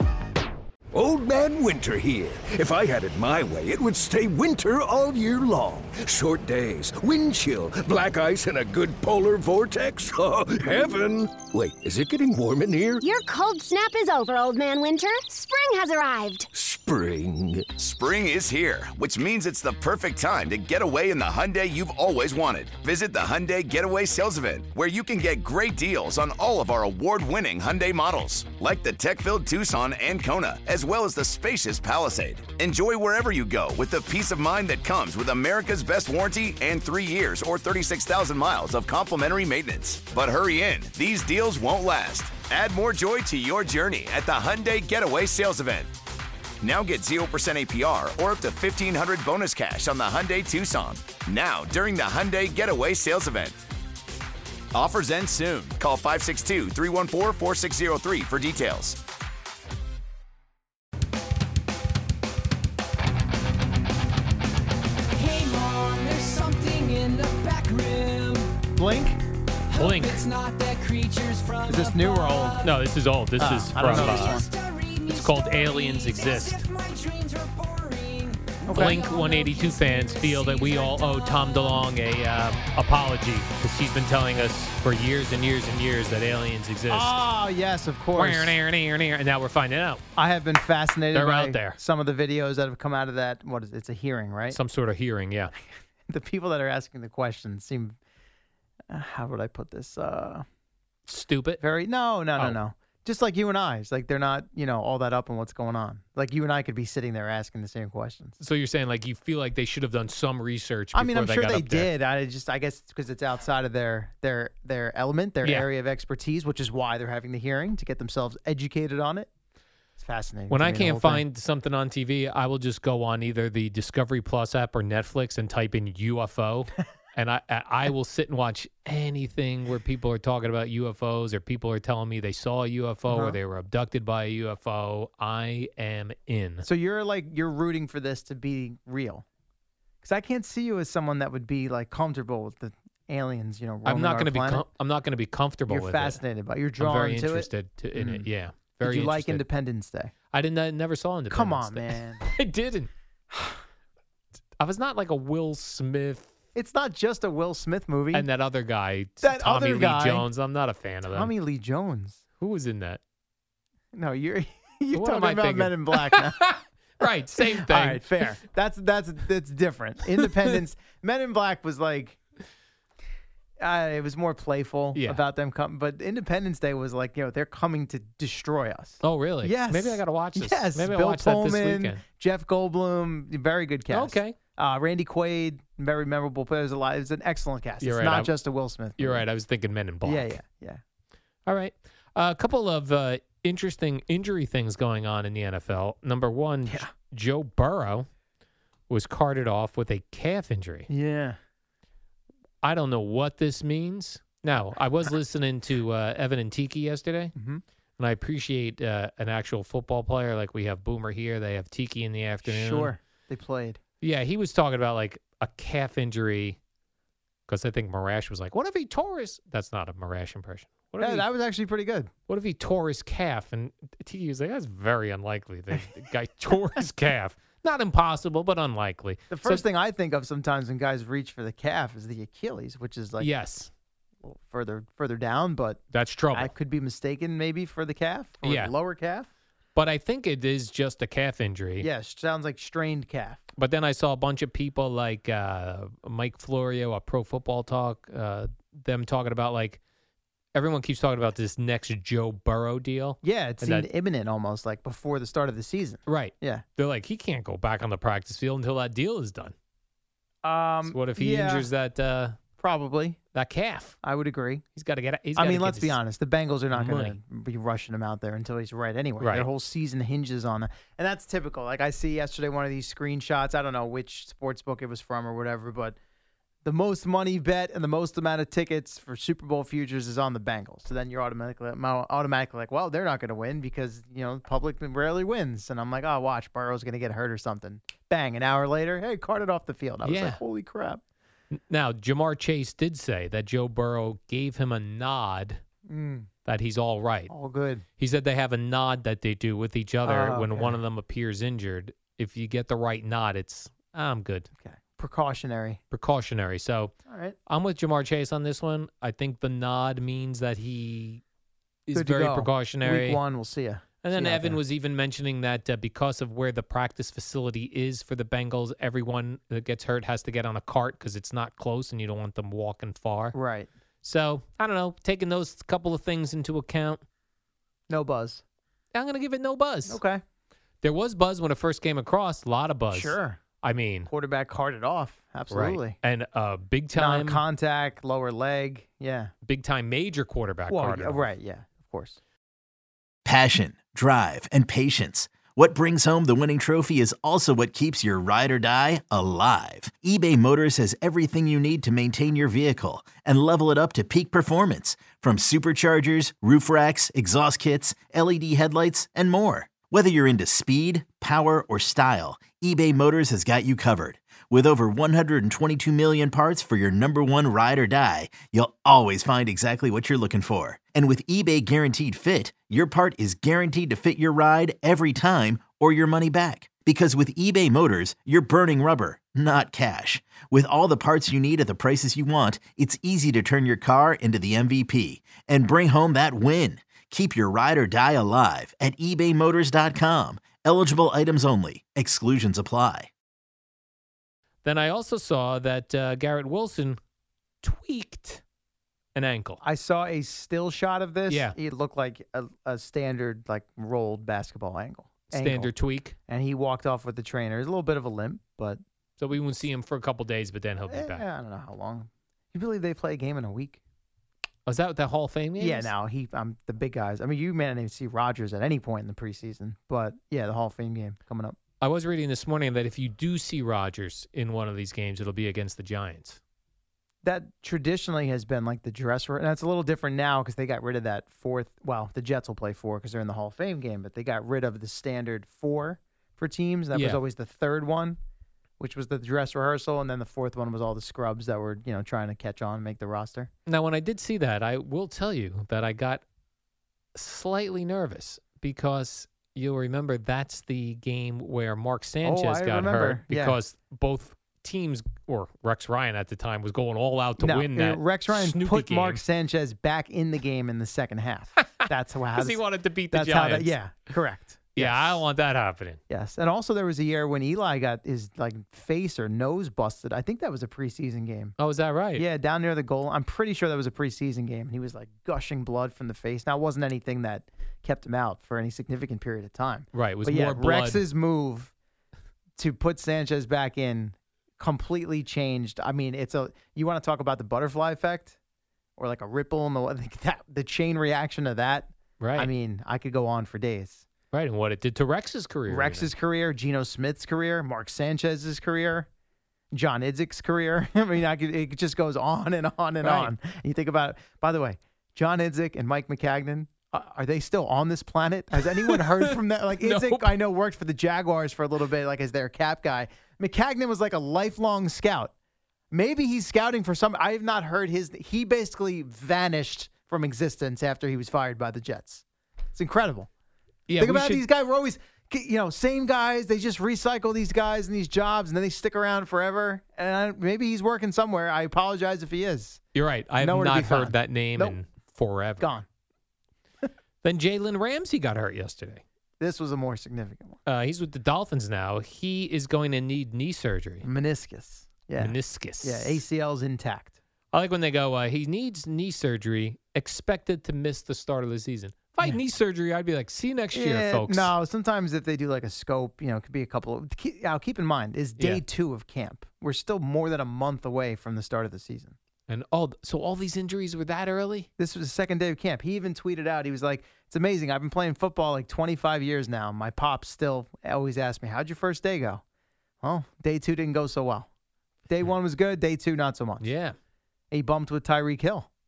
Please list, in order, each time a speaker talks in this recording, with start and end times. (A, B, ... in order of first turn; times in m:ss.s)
0:00.9-0:13.0 A
0:13.0-0:16.5 B
0:16.5-0:17.7 A
0:17.8-0:45.9 C
0:46.6-0:53.6 C
0:54.7-0:59.0 C
1:05.1-1:08.6 D
1:08.8-1:09.2 E
1:09.7-1:12.7 D
1:09.8-1:10.2 F
1:11.6-1:12.6 E
1:12.6-1:14.4 F
1:13.4-1:14.5 E
1:13.8-1:21.9 D
1:15.1-1:16.6 F
1:18.6-1:19.0 E
1:18.7-1:27.2 F
1:26.9-1:28.6 E
1:28.2-1:30.0 F
1:30.2-1:34.6 E
1:31.1-1:31.8 F
1:34.5-1:35.5 F
1:36.1-1:38.0 E
1:38.9-1:40.4 E
1:41.1-1:41.6 F
1:41.6-1:48.4 E
1:48.4-1:51.9 F
1:50.9-1:59.3 E
1:55.4-1:55.7 F
2:00.0-2:01.2 E
2:00.5-2:16.6 F
2:13.1-2:13.4 E
2:16.6-2:19.2 E
2:20.0-2:24.6 E
2:23.8-2:26.2 F
2:25.7-2:28.3 E
2:26.8-2:29.4 F
2:28.8-2:30.1 E
2:30.3-2:32.9 F
2:31.3-2:32.2 E
2:33.3-2:33.6 E
2:34.6-2:36.3 F
2:36.6-2:38.3 E
2:38.1-2:41.3 F
2:39.2-2:40.3 E
2:41.1-2:42.2 E
2:42.4-2:43.0 F
2:43.9-2:52.2 E
2:44.9-2:46.2 F
2:47.0-2:48.1 F
2:53.6-3:09.2 E
2:54.9-2:55.2 F
2:59.0-3:02.0 F
3:03.9-3:04.4 F
3:07.8-3:08.4 F
3:09.0-3:10.4 F
3:10.0-3:10.8 E
3:11.4-3:18.1 F
3:18.9-3:20.9 F
3:20.9-3:21.4 E
3:22.6-3:27.3 F
3:27.4-3:27.6 E
3:28.0-3:32.9 F
3:32.5-3:33.8 E
3:34.0-3:36.6 F
3:37.5-3:41.2 F
3:41.0-3:42.1 E
3:42.3-3:49.6 F
3:49.3-3:53.3 E
3:53.2-3:53.7 F
3:54.2-3:59.3 E
3:55.9-3:56.5 F
3:58.4-3:58.7 F
3:59.8-4:01.9 F
4:01.8-4:03.4 E
4:03.6-4:09.8 F
4:10.5-4:13.9 F
4:13.2-4:16.6 E
4:16.1-4:19.6 F
4:20.4-4:21.7 E
4:20.9-4:22.4 F
4:22.6-4:23.2 E
4:23.3-4:24.0 F
4:24.0-4:24.6 E
4:24.8-4:26.0 F
4:25.4-4:36.0 E
4:26.7-4:27.2 F
4:29.2-4:29.5 F
4:36.6-4:51.0 E
4:50.0-4:50.4 F
4:51.5-4:55.6 F
4:55.9-4:56.3 E
4:56.4-4:57.3 F
4:57.3-4:57.8 E
4:58.0-5:04.5 F
5:00.0-5:00.8 E
5:04.6-5:05.8 E
5:05.9-5:06.9 F
5:07.1-5:07.4 E
5:07.5-5:11.2 F
5:11.9-5:13.2 F
5:11.9-5:14.6 E
5:14.0-5:23.4 F
5:23.3-5:23.7 E
5:24.0-5:27.0 F
5:27.9-5:28.4 E
5:28.9-5:30.0 F
5:29.9-5:30.2 E
5:30.8-5:34.1 F
5:32.9-5:33.4 E
5:34.1-5:36.0 E
5:35.5-5:37.4 F
5:36.9-5:39.3 E
5:39.4-5:41.3 F
5:40.7-5:42.2 E
5:43.2-6:33.1 G
6:34.6-6:37.0 F
6:37.6-6:38.4 F
6:39.2-6:39.6 F
6:39.6-6:45.7 E
6:41.3-6:41.6 F
6:45.3-6:46.2 F
6:46.3-6:48.8 E
6:49.2-6:51.2 F
6:50.9-6:53.8 E
6:54.7-6:55.9 F
6:55.6-7:01.6 E
7:01.8-7:06.4 F
7:07.2-7:18.2 E
7:16.9-7:17.2 F
7:18.8-7:23.5 E
7:23.7-7:26.2 F
7:27.2-7:39.2 F
7:32.2-7:33.6 E
7:37.4-7:45.2 E
7:42.4-7:43.8 F
7:44.8-7:46.0 F
7:46.1-7:51.5 E
7:51.6-7:52.2 F
7:52.1-8:01.7 E
7:59.9-8:01.0 F
8:02.6-8:08.4 E
8:09.0-8:14.0 E
8:12.2-8:12.5 F
8:14.3-8:16.1 F
8:15.7-8:19.1 E
8:19.7-8:35.3 E
8:23.0-8:23.3 F
8:28.8-8:29.3 F
8:29.8-8:30.3 F
8:35.9-8:42.2 E
8:42.7-8:43.3 E
8:43.9-8:44.5 F
8:44.0-8:52.8 E
8:52.9-8:55.7 F
8:53.4-8:54.8 E
8:55.6-8:55.9 E
8:57.2-8:59.0 F
8:59.4-9:00.6 E
9:00.6-9:04.0 F
9:04.0-9:07.2 E
9:05.2-9:06.2 F
9:07.5-9:14.5 F
9:13.7-9:22.2 E
9:18.4-9:18.6 F
9:22.5-9:24.7 F
9:24.8-9:32.4 E
9:33.0-9:34.5 E
9:35.1-9:36.7 E
9:36.6-9:37.0 F
9:37.5-9:38.7 E